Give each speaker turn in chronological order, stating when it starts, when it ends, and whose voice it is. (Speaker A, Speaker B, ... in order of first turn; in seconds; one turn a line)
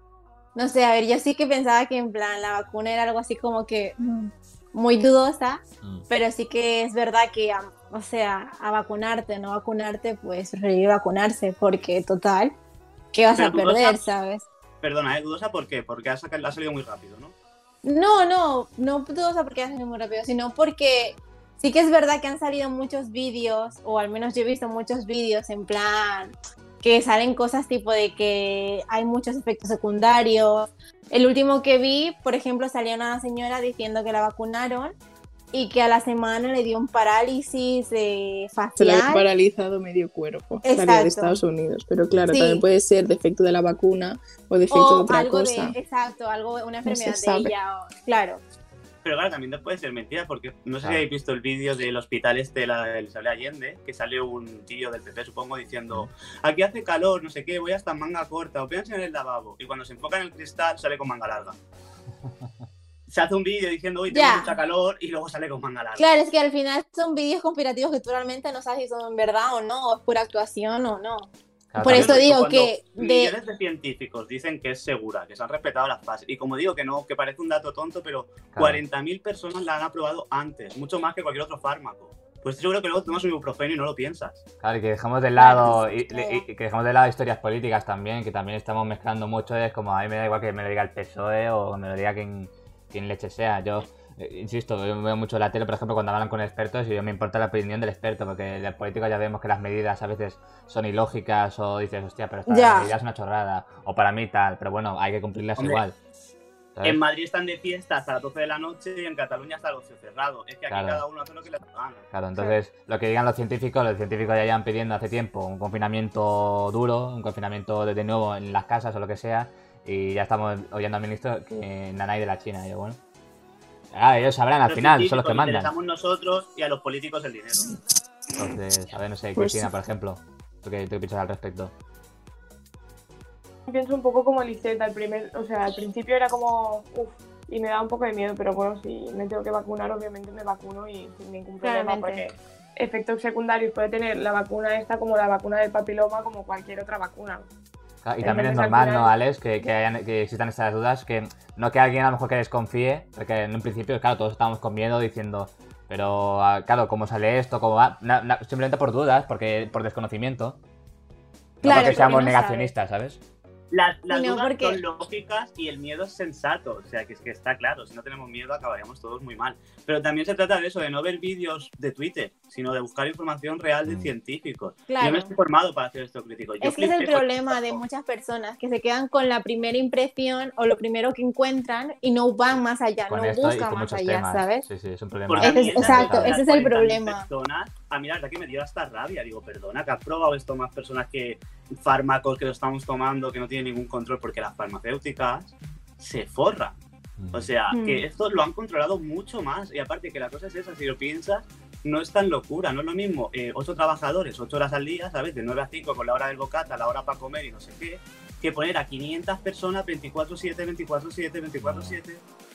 Speaker A: 0.6-12.5
Speaker A: 13.1-14.4
Speaker B: 13.3-14.1
Speaker B: 14.8-17.3
Speaker A: 17.8-35.0
Speaker A: 35.5-39.3
Speaker C: 38.8-45.8
Speaker A: 40.6-41.4
Speaker A: 42.3-42.6
Speaker A: 44.7-48.4
Speaker C: 46.9-47.5
Speaker B: 49.0-61.6
Speaker B: 63.1-66.1
Speaker A: 64.1-64.6
Speaker A: 66.0-73.3
Speaker D: 71.7-72.2
Speaker B: 71.9-84.4
Speaker D: 78.5-78.8
Speaker D: 84.6-106.0
Speaker A: 85.4-86.5
Speaker A: 102.5-102.9
Speaker D: 106.8-107.0
Speaker B: 106.8-112.1
Speaker D: 110.7-111.0
Speaker D: 112.1-123.0
Speaker D: 123.9-125.7
Speaker B: 124.7-127.7
Speaker D: 128.3-131.7
Speaker C: 129.4-129.7
Speaker E: 133.7-147.5
Speaker A: 141.6-142.3
Speaker D: 148.0-160.6
Speaker E: 148.2-149.1
Speaker D: 161.6-163.2
Speaker A: 161.6-162.7
Speaker B: 161.6-162.3
Speaker B: 163.7-177.8
Speaker A: 164.1-164.8
Speaker D: 173.9-174.1
Speaker A: 174.9-175.3
Speaker A: 176.6-184.7
Speaker D: 183.1-186.4
Speaker B: 185.3-196.8
Speaker A: 185.4-187.2
Speaker D: 197.2-197.5
Speaker B: 197.3-212.2
Speaker A: 197.7-198.1
Speaker D: 211.6-212.0